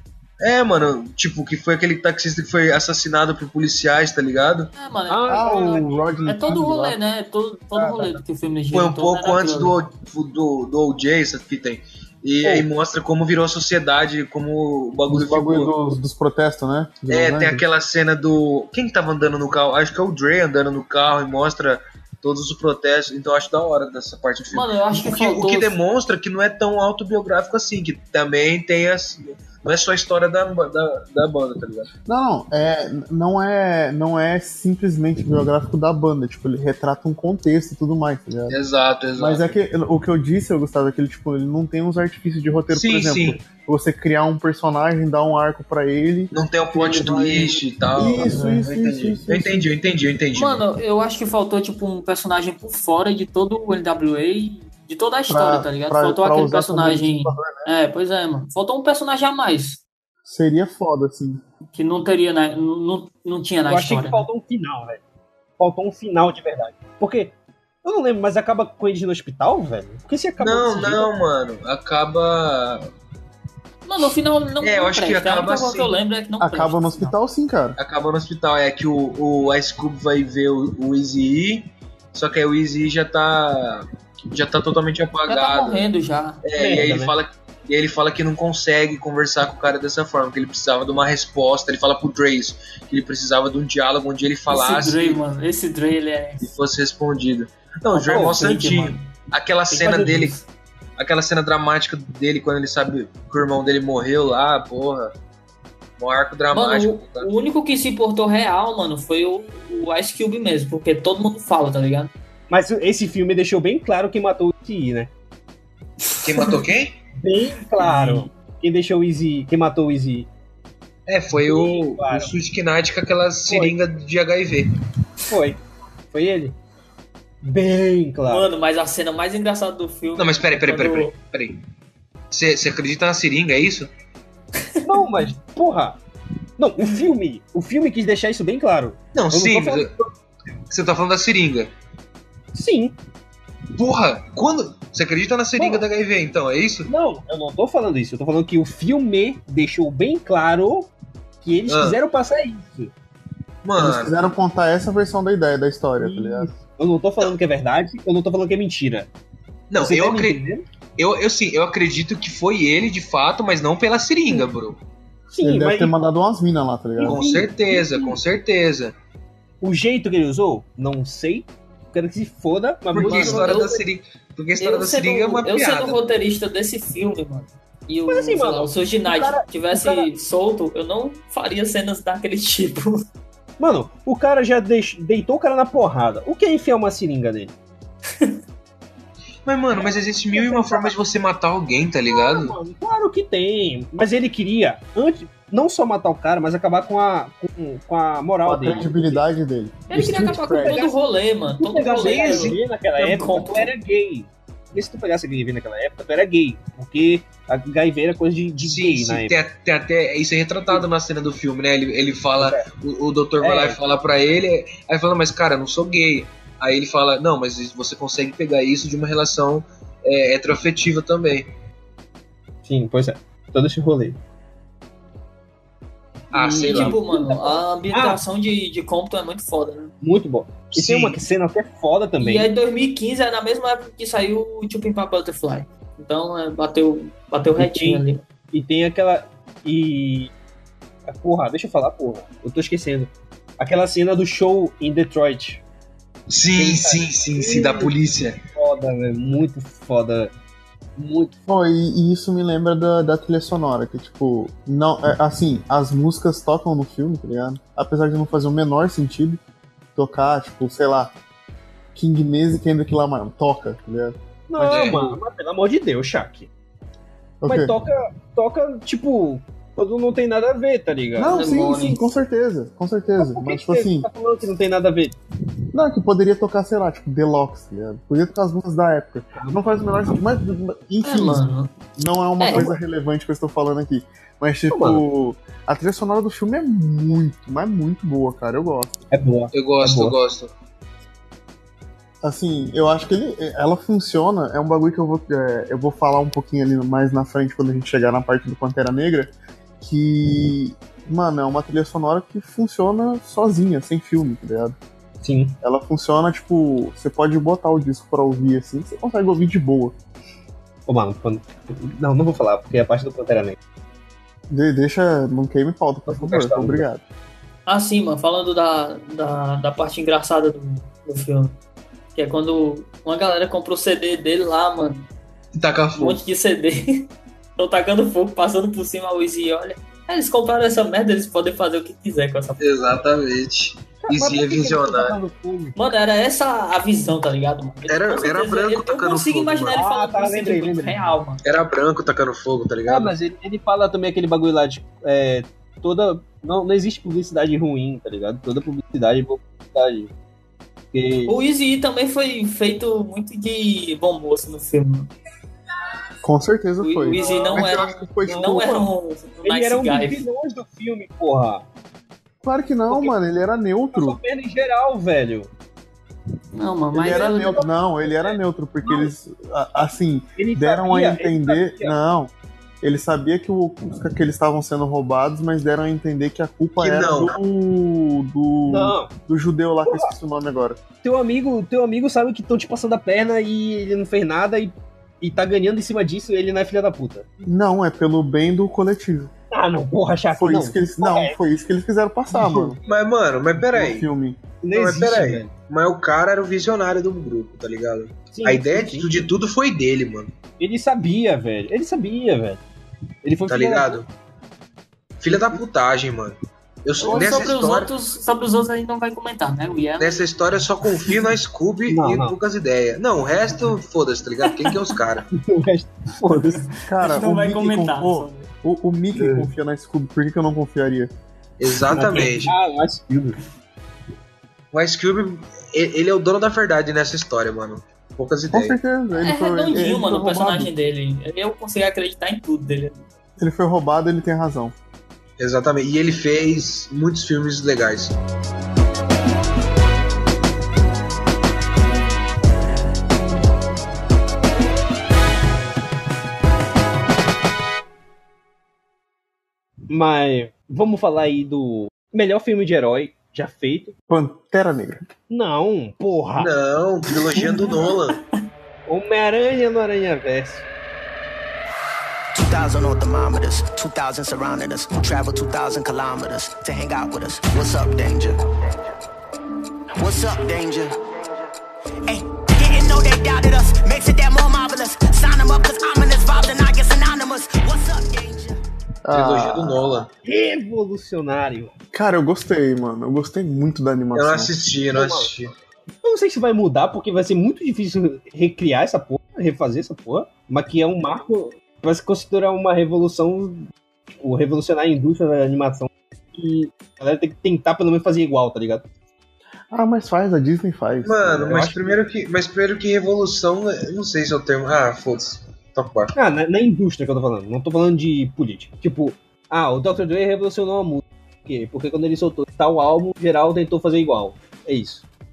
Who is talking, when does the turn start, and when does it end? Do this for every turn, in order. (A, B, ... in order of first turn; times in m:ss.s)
0:00.4-0:04.7 A
0:04.8-0:09.8 B
0:05.1-0:06.6 C
0:05.3-0:07.0 D
0:07.8-0:08.2 C
0:08.7-0:15.8 A
0:15.1-0:17.6 D
0:17.1-0:31.9 A
0:24.5-0:25.8 B
0:32.1-0:38.6 D
0:38.5-0:39.6 A
0:39.2-0:49.7 D
0:42.7-0:43.4 A
0:46.3-0:50.6 A
0:48.3-0:48.6 B
0:50.4-0:59.8 B
0:55.3-0:57.7 D
1:00.2-1:01.4 D
1:01.7-1:04.3 B
1:03.7-1:05.0 C
1:05.6-1:11.1 C
1:10.4-1:12.9 A
1:13.8-1:17.2 B
1:14.6-1:15.9 A
1:16.4-1:17.8 D
1:17.8-1:25.9 A
1:25.3-1:26.4 B
1:26.4-1:35.2 A
1:26.6-1:27.2 C
1:34.5-1:36.5 B
1:36.4-1:40.4 A
1:37.9-1:38.4 C
1:38.1-1:39.1 B
1:39.7-1:40.5 B
1:41.0-1:45.1 A
1:46.0-1:47.3 A
1:46.5-1:52.1 B
1:52.5-1:55.1 C
1:56.2-1:57.0 A
1:57.2-2:00.3 C
1:57.8-1:58.3 B
2:01.1-2:04.7 A
2:01.4-2:02.3 C
2:03.5-2:03.7 C
2:05.3-2:06.6 C
2:07.4-2:08.5 C
2:08.3-2:11.1 B
2:10.2-2:11.6 A
2:12.3-2:13.9 A
2:14.8-2:16.0 C
2:16.6-2:20.1 C
2:19.1-2:19.9 A
2:20.7-2:21.7 A
2:22.5-2:23.0 C
2:23.8-2:26.9 A
2:25.6-2:25.8 C
2:26.9-2:30.9 C
2:31.4-2:32.9 C
2:31.7-2:32.0 A
2:33.6-2:34.1 A
2:33.8-2:36.5 D
2:36.0-2:39.1 C
2:39.7-2:40.4 A
2:39.8-2:40.6 C
2:41.0-2:44.8 A
2:45.3-2:45.9 C
2:45.4-2:47.2 D
2:47.0-2:48.2 C
2:47.0-2:49.0 A
2:49.6-2:53.8 C
2:52.9-2:56.0 A
2:53.0-2:53.8 B
2:54.6-3:03.1 B
2:58.1-3:00.1 C
3:03.6-3:07.5 C
3:09.5-3:12.6 A
3:09.7-3:11.0 C
3:12.1-3:19.2 C
3:18.4-3:20.8 D
3:19.9-3:23.7 B
3:19.9-3:21.0 C
3:21.6-3:29.4 C
3:21.9-3:22.6 A
3:28.6-3:41.5 A
3:32.4-3:32.6 C
3:33.4-3:33.8 C
3:42.6-3:44.2 C
3:46.3-3:47.0 A
3:46.3-3:48.2 C
3:46.5-3:49.9 B
3:50.0-3:52.5 C
3:50.7-3:51.2 A
3:52.2-3:58.2 B
3:57.6-4:00.3 C
4:01.1-4:05.6 C
4:06.3-4:08.4 A
4:06.6-4:07.9 C
4:08.5-4:10.3 C
4:11.0-4:11.4 C
4:11.5-4:19.4 D
4:20.0-4:21.1 D
4:22.0-4:25.0 D
4:24.5-4:26.5 C
4:24.6-4:25.2 A
4:27.4-4:27.8 D
4:27.4-4:31.4 C
4:31.2-4:34.1 D
4:31.3-4:32.1 B
4:33.2-4:35.2 C
4:35.7-4:41.4 D
4:39.4-4:39.9 C
4:41.0-4:41.7 B
4:42.0-4:48.9 D
4:42.4-4:42.7 B
4:44.7-4:45.0 C
4:49.1-4:50.2 C
4:49.5-4:50.5 A
4:52.2-5:04.8 D
5:05.2-5:05.6 C
5:05.6-5:10.0 D
5:10.9-5:13.6 C
5:14.5-5:17.0 D
5:16.1-5:16.8 C
5:17.7-5:21.6 B
5:22.2-5:25.1 B
5:25.6-5:26.2 A
5:26.0-5:32.6 B
5:32.6-5:35.2 A
5:34.1-5:35.8 C
5:35.8-5:41.4 B
5:37.9-5:39.8 A
5:39.7-5:41.2 C
5:41.4-5:43.1 A
5:42.9-5:50.1 C
5:50.9-5:51.3 C
5:51.3-5:55.1 B
5:56.2-5:58.7 D
5:56.8-6:00.2 B
5:57.2-5:58.9 C
5:59.4-6:01.7 C
6:02.4-6:04.2 D
6:02.9-6:03.2 C
6:03.9-6:05.5 C
6:06.5-6:07.7 B
6:06.9-6:20.8 D
6:08.0-6:09.1 C
6:10.4-6:12.0 C
6:16.8-6:17.4 A
6:18.7-6:19.1 C
6:19.9-6:20.1 C
6:21.0-6:27.3 C
6:27.4-6:29.3 D
6:29.5-6:31.4 C
6:30.3-6:32.8 D
6:32.3-6:32.8 C
6:32.9-6:34.1 A
6:33.7-6:34.4 D
6:34.6-6:35.5 C
6:34.7-6:40.3 A
6:38.3-6:39.3 C
6:40.6-6:42.6 C
6:43.2-6:44.0 C
6:43.5-6:44.1 A
6:45.2-6:47.9 A
6:47.0-6:50.3 B
6:50.0-6:55.3 A
6:51.9-6:52.4 C
6:55.4-6:56.6 C
6:56.7-6:58.5 B
6:56.8-7:01.1 D
6:59.2-6:59.5 C
7:01.6-7:02.6 A
7:01.9-7:03.4 C
7:04.7-7:08.8 A
7:08.5-7:10.7 D
7:09.2-7:13.0 B
7:13.4-7:14.8 D
7:15.4-7:18.2 A
7:29.9-7:33.9 C
7:34.1-7:35.0 D
7:35.3-7:36.5 C
7:36.4-7:38.2 A
7:38.9-7:40.7 C
7:42.4-7:48.9 E
7:50.0-7:51.5 E
7:52.1-7:58.6 E
7:59.0-8:00.1 D
7:59.1-8:00.1 A
8:00.2-8:01.7 C
8:01.9-8:04.5 D
8:04.2-8:05.5 A
8:04.9-8:05.3 C
8:06.0-8:18.8 C
8:19.7-8:21.6 D
8:21.0-8:26.1 A
8:21.5-8:22.0 C
8:26.2-8:35.0 C